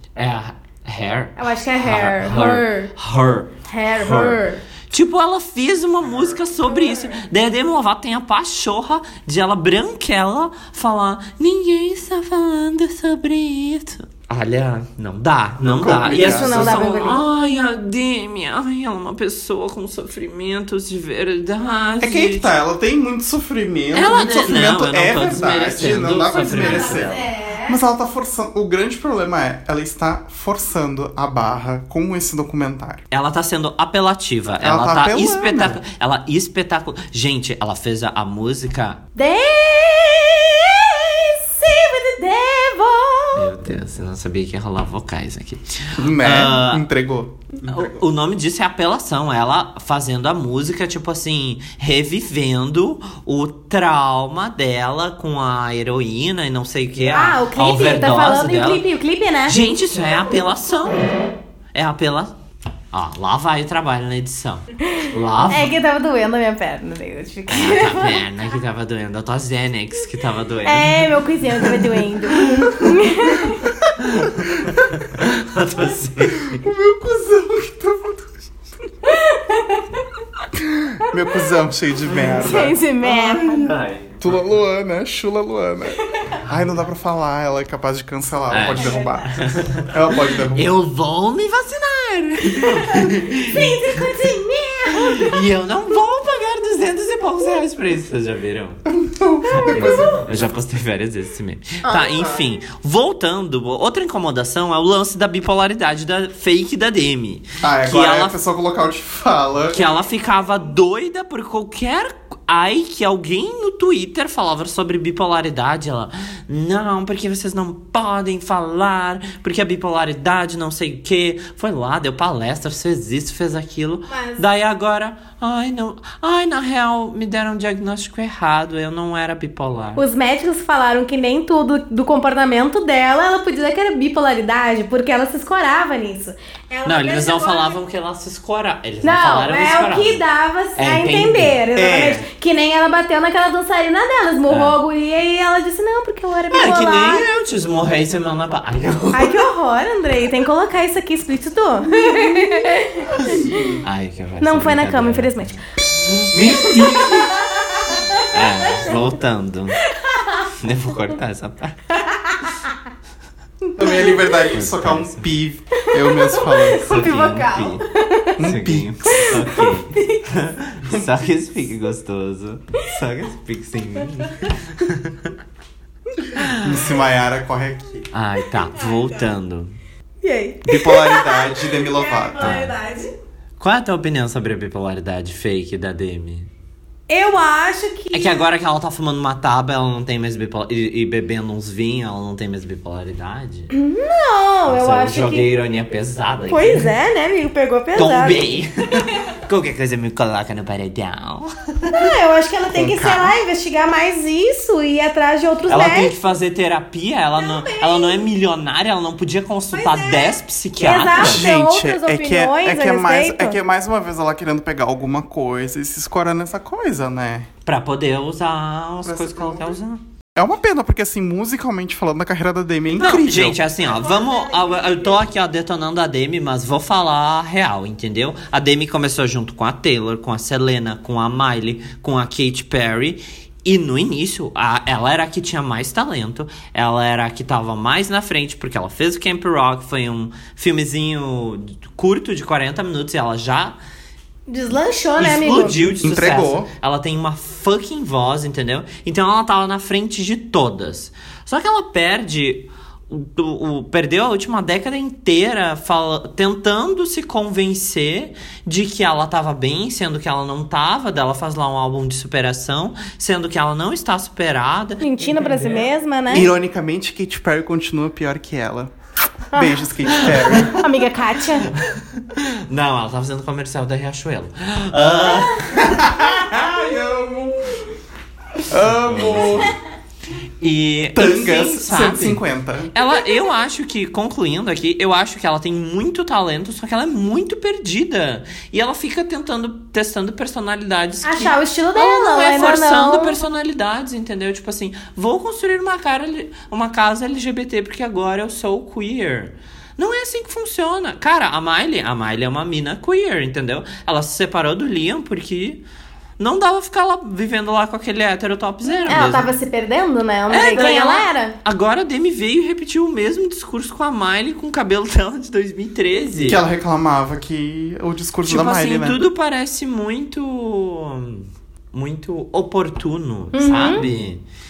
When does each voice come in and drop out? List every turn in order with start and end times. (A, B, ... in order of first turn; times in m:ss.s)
0:00.2-0:22.5 A
0:01.4-0:02.9 B
0:03.7-0:04.6 B
0:15.6-0:16.9 C
0:16.1-0:17.2 B
0:22.0-0:33.0 C
0:23.9-0:27.3 A
0:26.3-0:27.8 B
0:33.1-0:39.0 A
0:34.6-0:35.8 C
0:39.2-0:43.5 B
0:43.3-0:46.9 A
0:46.0-0:48.0 C
0:47.6-0:58.8 A
0:57.1-0:59.6 B
0:59.4-1:01.1 A
1:01.7-1:02.3 A
1:02.9-1:05.7 A
1:05.0-1:08.2 B
1:07.5-1:11.1 A
1:10.6-1:13.6 B
1:12.3-1:12.9 A
1:14.0-1:16.6 A
1:16.3-1:18.4 C
1:19.0-1:20.0 B
1:20.5-1:22.7 C
1:22.0-1:24.2 A
1:22.4-1:23.7 B
1:24.2-1:30.7 C
1:28.5-1:29.9 A
1:28.8-1:29.2 B
1:30.5-1:34.1 A
1:32.5-1:35.4 B
1:34.9-1:38.8 A
1:38.9-1:40.5 C
1:39.6-1:48.4 A
1:41.8-1:42.4 C
1:47.6-1:49.8 C
1:49.7-2:10.0 A
2:04.1-2:04.4 B
2:10.0-2:17.8 B
2:16.8-2:20.2 A
2:19.0-2:27.3 B
2:20.8-2:21.6 A
2:21.7-2:22.3 C
2:24.5-2:24.8 A
2:26.5-2:29.5 A
2:29.1-2:33.7 B
2:33.2-2:36.8 A
2:33.5-2:33.7 C
2:34.4-2:35.6 B
2:36.3-2:37.4 C
2:36.8-2:38.3 B
2:38.3-2:39.8 A
2:40.6-2:41.8 A
2:42.0-2:42.7 B
2:43.8-2:46.9 C
2:43.8-2:44.3 B
2:44.5-2:45.3 A
2:45.9-2:48.4 B
2:46.8-2:47.8 A
2:48.4-2:49.3 C
2:48.4-2:55.3 A
2:49.1-2:50.2 B
2:56.3-2:56.8 A
2:56.6-2:58.0 C
2:58.1-2:59.7 A
2:58.8-2:59.1 B
3:00.2-3:03.1 B
3:00.6-3:02.6 C
3:02.4-3:02.7 A
3:03.6-3:06.5 A
3:07.1-3:08.4 B
3:08.1-3:13.7 A
3:13.7-3:15.5 B
3:14.7-3:16.9 A
3:16.5-3:18.5 B
3:17.9-3:22.1 A
3:21.9-3:26.1 B
3:22.7-3:23.3 C
3:25.7-3:31.5 A
3:27.4-3:28.2 B
3:29.7-3:33.6 B
3:31.2-3:37.5 C
3:37.6-3:40.0 A
3:39.0-3:39.8 C
3:40.4-3:43.6 C
3:42.9-4:03.8 A
3:43.9-3:45.2 B
4:04.5-4:05.8 B
4:05.2-4:25.8 A
4:06.0-4:06.7 C
4:25.0-4:26.5 B
4:26.3-4:28.9 C
4:29.5-4:30.9 C
4:30.1-4:30.7 A
4:30.5-4:31.7 B
4:31.6-4:36.1 A
4:35.8-4:37.8 C
4:38.7-4:39.7 C
4:39.0-4:39.7 A
4:40.6-4:42.4 A
4:41.1-4:42.9 C
4:42.9-5:05.8 A
4:51.2-4:53.3 B
5:06.4-5:09.5 A
5:09.1-5:11.5 B
5:10.5-5:16.6 A
5:16.4-5:19.2 C
5:18.4-5:24.4 A
5:23.5-5:24.0 B